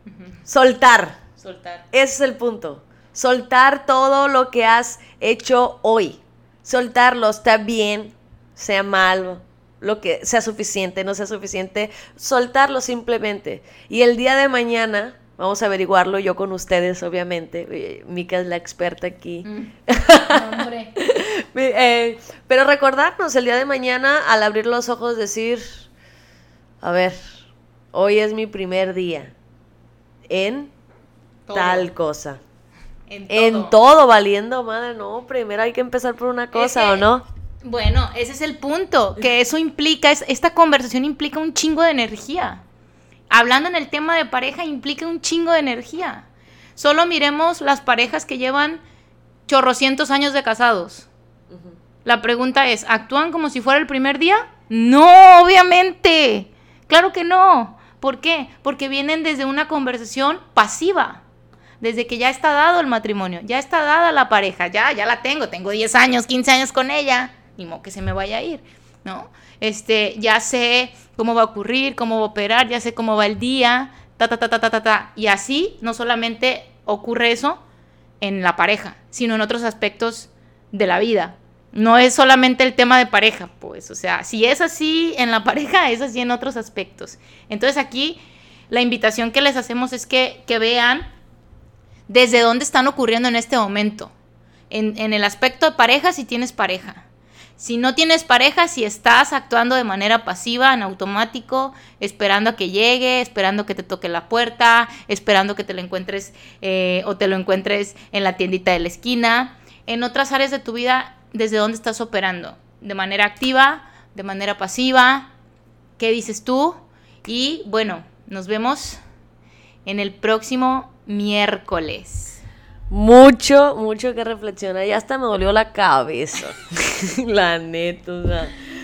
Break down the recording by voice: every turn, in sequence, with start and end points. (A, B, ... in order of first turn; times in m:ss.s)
0:00.5-0:01.2 A
0:01.4-0:01.8 B
0:01.9-0:25.9 A
0:19.4-0:20.9 B
0:26.8-0:27.3 A
0:27.9-0:29.3 A
0:30.3-0:30.7 A
0:31.5-0:31.9 B
0:31.5-0:32.4 A
0:33.1-0:33.7 B
0:33.3-0:37.2 A
0:36.5-0:37.1 B
0:37.6-0:42.6 B
0:43.3-0:48.8 B
0:49.5-0:51.1 B
0:52.0-1:01.2 B
1:01.8-1:17.6 B
1:18.2-1:28.2 B
1:28.7-1:31.1 B
1:32.1-1:34.1 B
1:34.7-1:37.0 B
1:37.6-1:55.3 B
1:56.0-1:59.0 B
1:59.8-2:02.4 B
2:02.9-2:08.6 A